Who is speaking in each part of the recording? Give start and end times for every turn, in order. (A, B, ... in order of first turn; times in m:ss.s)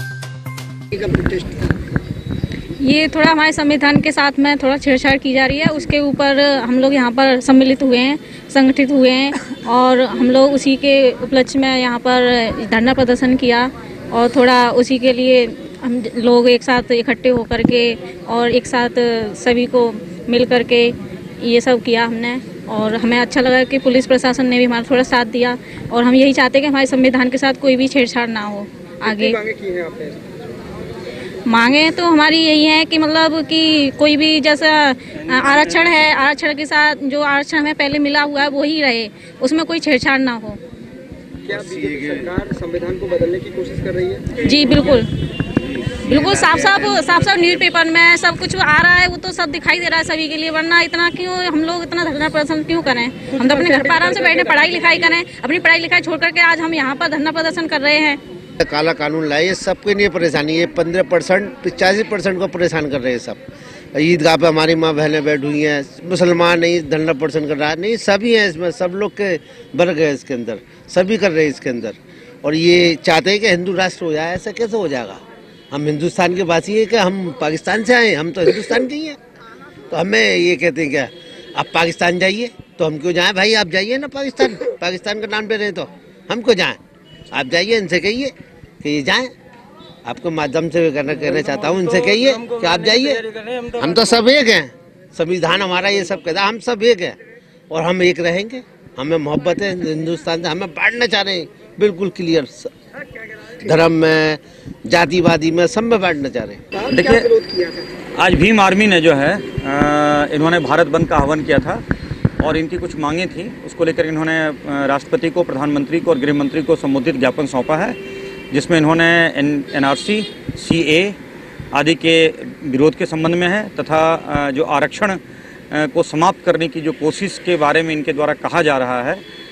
0:01.0-0:01.7 A
0:02.8-0:29.4 B
0:29.0-0:30.2 A
0:31.5-0:40.6 B
0:41.4-0:44.6 A
0:41.6-0:42.3 C
0:44.4-0:45.1 B
0:46.0-0:58.2 B
0:53.4-0:55.0 A
0:58.6-1:03.4 C
1:04.0-1:19.2 C
1:19.9-1:26.8 C
1:27.3-1:29.3 C
1:30.0-1:37.2 C
1:37.7-1:42.7 C
1:43.6-1:46.6 C
1:46.8-1:47.9 A
1:46.9-1:47.3 D
1:48.2-1:51.8 D
1:52.4-1:58.0 D
1:58.5-2:01.2 D
2:01.7-2:05.2 D
2:05.7-2:09.2 D